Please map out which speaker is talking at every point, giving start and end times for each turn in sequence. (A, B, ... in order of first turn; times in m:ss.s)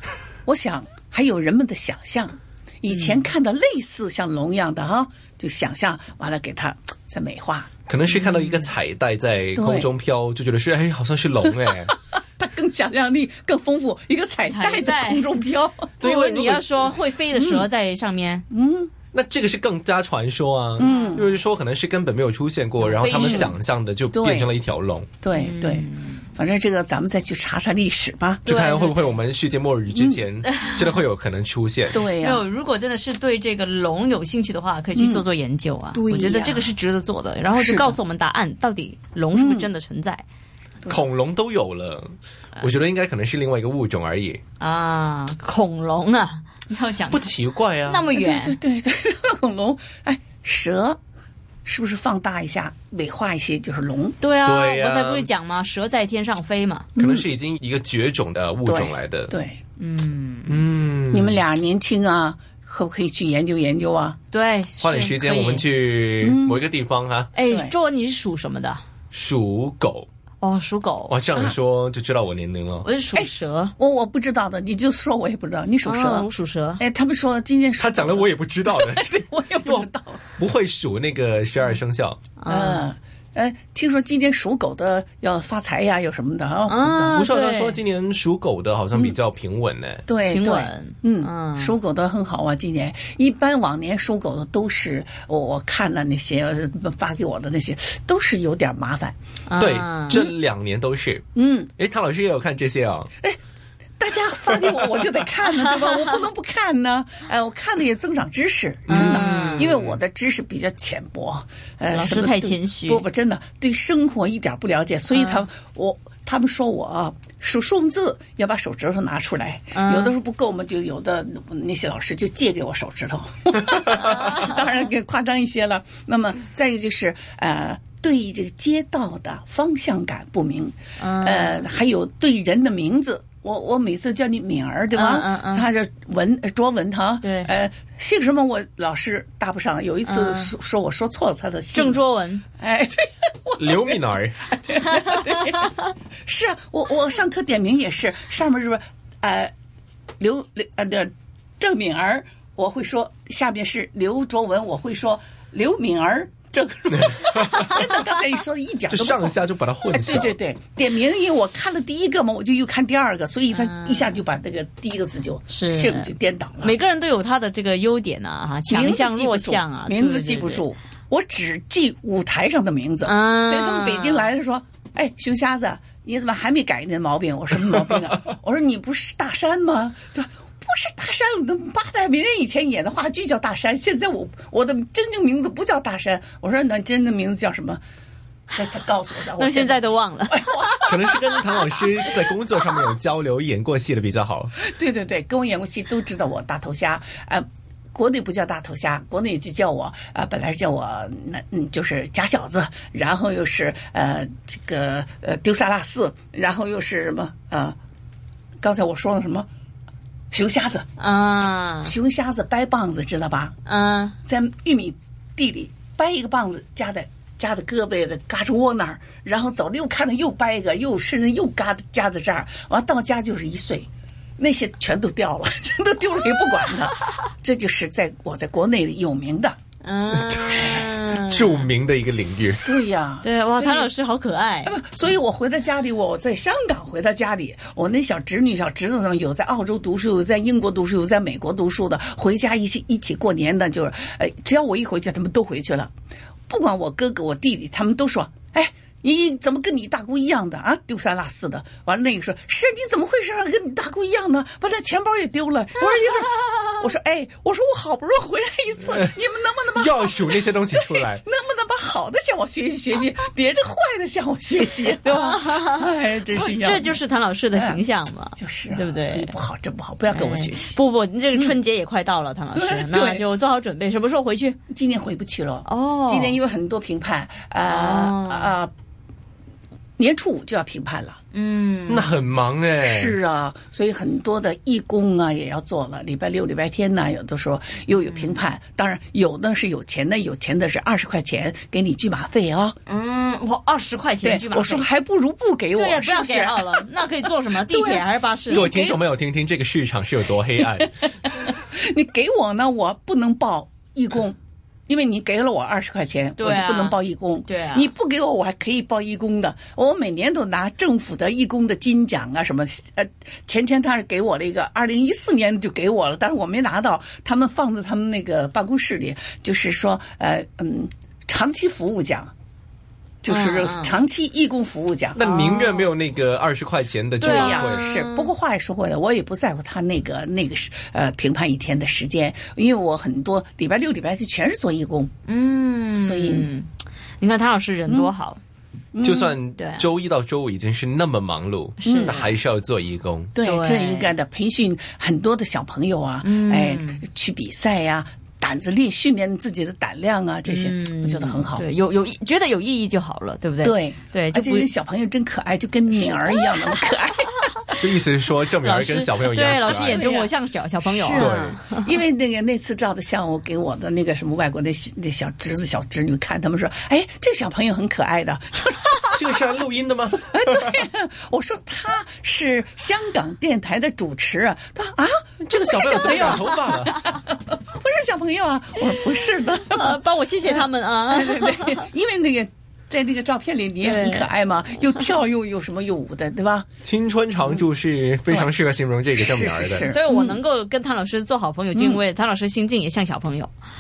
0:00.4-0:07.7 A
0:07.9-0:11.9 B
0:09.5-0:09.9 A
0:11.7-0:15.9 A
0:14.4-0:15.3 C
0:16.0-0:16.7 B
0:16.0-0:18.4 C
0:17.3-0:17.7 A
0:18.5-0:18.9 A
0:19.1-0:25.1 B
0:20.8-0:21.3 A
0:20.8-0:21.2 C
0:22.8-0:23.5 C
0:23.2-0:23.6 A
0:24.1-0:24.5 A
0:25.2-0:28.4 A
0:25.3-0:26.2 C
0:28.4-0:32.0 B
0:28.5-0:29.2 C
0:29.9-0:30.2 A
0:31.9-0:32.4 A
0:32.1-0:40.2 C
0:34.9-0:35.2 A
0:35.9-0:36.7 A
0:37.5-0:38.0 A
0:39.3-0:39.7 A
0:40.9-0:44.4 B
0:44.6-0:47.3 C
0:47.1-0:48.1 B
0:47.8-0:48.6 C
0:48.1-0:51.0 A
0:51.6-0:54.2 A
0:54.2-0:56.9 C
0:54.4-0:55.3 B
0:57.0-0:57.3 A
0:57.0-0:59.3 B
0:58.6-0:59.6 A
0:59.8-1:00.6 C
1:00.5-1:01.4 B
1:01.1-1:04.2 A
1:04.3-1:05.6 C
1:04.8-1:07.3 B
1:06.2-1:06.6 A
1:07.3-1:08.8 C
1:09.1-1:10.1 B
1:10.4-1:11.1 C
1:11.1-1:12.9 B
1:12.8-1:13.7 C
1:13.1-1:20.2 A
1:15.8-1:16.8 C
1:17.8-1:22.2 B
1:22.4-1:22.9 C
1:22.4-1:27.3 A
1:26.7-1:27.8 C
1:27.1-1:30.0 B
1:30.1-1:39.2 A
1:30.3-1:31.7 C
1:39.5-1:40.2 C
1:39.6-1:43.1 B
1:41.3-1:41.7 A
1:44.0-2:22.0 A
1:48.9-1:49.7 C
1:48.9-1:49.9 B
1:51.9-1:53.0 C
1:55.1-1:55.4 C
1:59.7-2:00.1 C
2:04.1-2:04.5 C
2:11.0-2:11.7 C
2:14.9-2:15.7 C
2:17.2-2:17.5 C
2:20.0-2:20.5 C
2:21.7-2:22.4 C
2:22.6-2:29.5 A
2:23.6-2:24.4 B
2:25.3-2:25.6 C
2:30.2-2:46.8 A
2:37.0-2:37.7 B
2:38.9-2:40.3 B
2:43.5-2:44.2 C
2:45.5-2:50.6 C
2:48.7-3:07.8 A
2:53.0-2:54.3 C
3:08.5-3:11.2 A
3:09.3-3:10.9 C
3:10.8-3:14.5 B
3:14.6-3:27.8 A
3:28.6-3:29.5 A
3:30.3-3:30.8 A
3:31.0-3:31.9 C
3:31.8-3:33.5 A
3:33.6-3:34.2 C
3:34.2-3:49.6 A
3:49.8-3:51.6 C
3:50.2-3:52.7 B
3:52.6-3:53.9 A
3:53.2-3:54.7 C
3:54.6-4:05.9 A
4:06.5-4:27.8 A
4:19.7-4:21.2 B
4:25.0-4:29.3 C
4:28.4-4:30.8 A
4:30.1-4:34.6 C
4:31.3-4:31.6 A
4:32.5-4:33.2 A
4:34.7-4:38.7 A
4:35.6-4:36.4 C
4:37.7-4:38.5 C
4:40.0-4:41.2 A
4:41.3-4:42.1 C
4:41.9-4:43.2 B
4:42.8-4:52.8 A
4:48.1-4:48.4 C
4:52.9-4:54.9 C
4:54.2-4:56.9 A
4:55.8-4:58.7 C
4:57.5-4:59.0 A
4:58.5-5:01.1 B
5:00.8-5:04.4 A
5:04.9-5:22.3 A
5:06.4-5:07.9 C
5:23.2-5:25.2 A
5:23.3-5:24.0 C
5:25.2-5:27.8 B
5:25.2-5:25.9 C
5:27.2-5:28.3 C
5:27.2-5:35.1 A
5:35.3-5:36.7 C
5:36.0-5:36.5 A
5:37.2-5:38.4 C
5:37.9-5:38.1 A
5:38.9-5:39.4 A
5:39.0-5:43.3 B
5:39.6-5:39.8 C
5:41.8-5:42.3 C
5:41.8-5:42.3 A
5:43.3-5:51.6 A
5:43.4-5:44.1 C
5:46.2-5:47.0 C
5:50.5-5:54.7 C
5:53.6-5:57.9 A
5:57.8-6:00.0 B
5:58.6-6:01.9 C
5:59.6-6:00.3 A
6:00.8-6:09.4 A
6:01.0-6:01.6 B
6:09.1-6:10.8 B
6:10.2-6:26.7 A
6:15.4-6:17.0 B
6:19.7-6:21.9 C
6:23.8-6:24.3 C
6:26.8-6:29.9 B
6:29.1-6:30.4 A
6:29.8-6:33.5 C
6:31.7-6:32.0 A